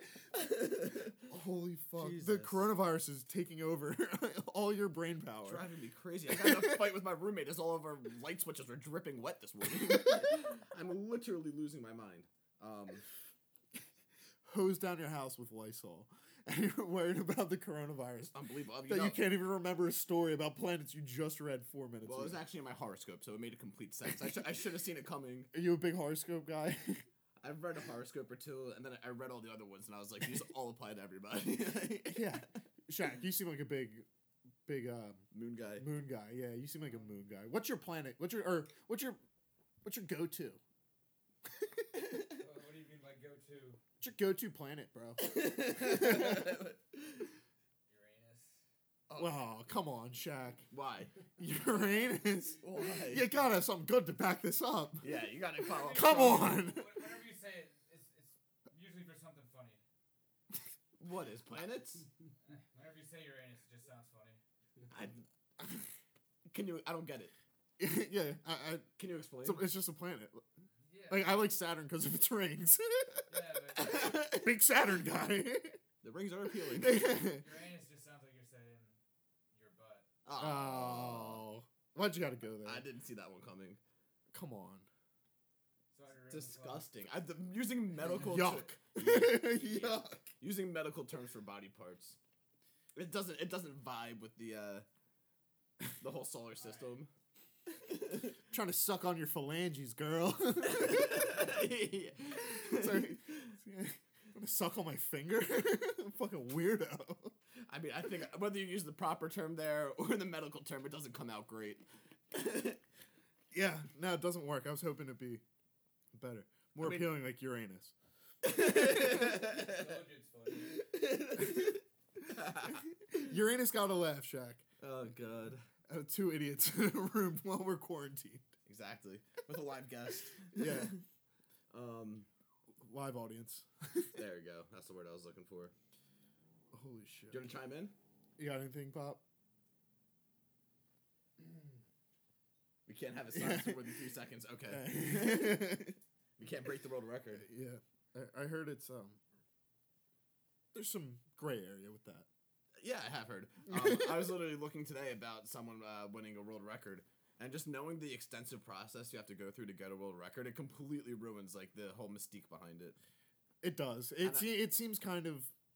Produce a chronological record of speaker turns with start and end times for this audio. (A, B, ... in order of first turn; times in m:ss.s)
0:00.3-0:01.3 A
0:01.3-0:05.6 B
0:02.0-0:02.7 A
0:05.4-0:13.1 A
0:06.3-0:06.6 B
0:09.8-0:10.2 B
0:14.4-0:18.4 B
0:18.3-0:19.2 A
0:18.9-0:22.4 B
0:22.0-0:25.5 A
0:25.5-0:27.0 B
0:27.4-0:32.4 A
0:32.1-0:34.1 B
0:34.7-0:35.2 B
0:35.3-0:35.9 A
0:35.8-0:39.2 B
0:39.8-0:40.6 B
0:42.4-0:43.8 C
0:44.0-0:46.5 B
0:45.2-0:47.3 A
0:47.9-0:48.6 C
0:49.1-0:49.5 A
0:49.2-0:50.7 B
0:50.7-0:51.1 A
0:51.4-0:55.0 B
0:52.6-0:53.3 A
0:55.0-0:56.6 A
0:55.6-0:59.8 C
0:56.0-0:57.0 B
1:01.0-1:02.1 A
1:02.5-1:04.4 C
1:04.9-1:05.2 A
1:06.5-1:07.3 A
1:07.8-1:08.9 B
1:09.0-1:09.7 A
1:09.4-1:10.4 B
1:10.9-1:11.4 C
1:11.1-1:15.8 B
1:13.3-1:14.2 C
1:13.9-1:14.3 A
1:16.0-1:17.0 A
1:16.7-1:17.6 B
1:17.1-1:19.0 C
1:19.5-1:20.1 C
1:20.2-1:21.4 A
1:20.4-1:22.8 B
1:22.6-1:23.8 A
1:24.3-1:24.9 B
1:25.9-1:26.9 C
1:26.3-1:32.2 A
1:28.2-1:30.2 B
1:33.0-1:34.9 A
1:36.0-1:37.1 A
1:37.7-1:38.4 A
1:38.5-1:41.5 B
1:40.6-1:43.5 A
1:42.6-1:47.3 B
1:47.7-1:52.8 A
1:53.5-1:55.4 B
1:56.1-1:57.9 B
1:56.8-1:57.1 A
1:58.4-2:00.0 A
1:59.2-2:00.8 C
2:00.9-2:01.8 A
2:02.3-2:02.8 A
2:02.8-2:04.6 B
2:04.8-2:05.7 A
2:05.9-2:08.4 B
2:08.7-2:11.0 A
2:10.5-2:10.9 B
2:11.7-2:12.3 A
2:12.8-2:14.2 B
2:14.2-2:15.7 A
2:16.7-2:17.4 B
2:17.3-2:17.9 A
2:18.4-2:19.2 B
2:22.9-2:25.6 A
2:23.3-2:24.1 B
2:24.7-2:26.0 B
2:26.4-2:27.5 A
2:27.4-2:29.2 B
2:30.7-2:32.3 B
2:32.8-2:43.0 A
2:33.7-2:34.4 B
2:43.6-2:45.5 B
2:44.2-2:44.5 A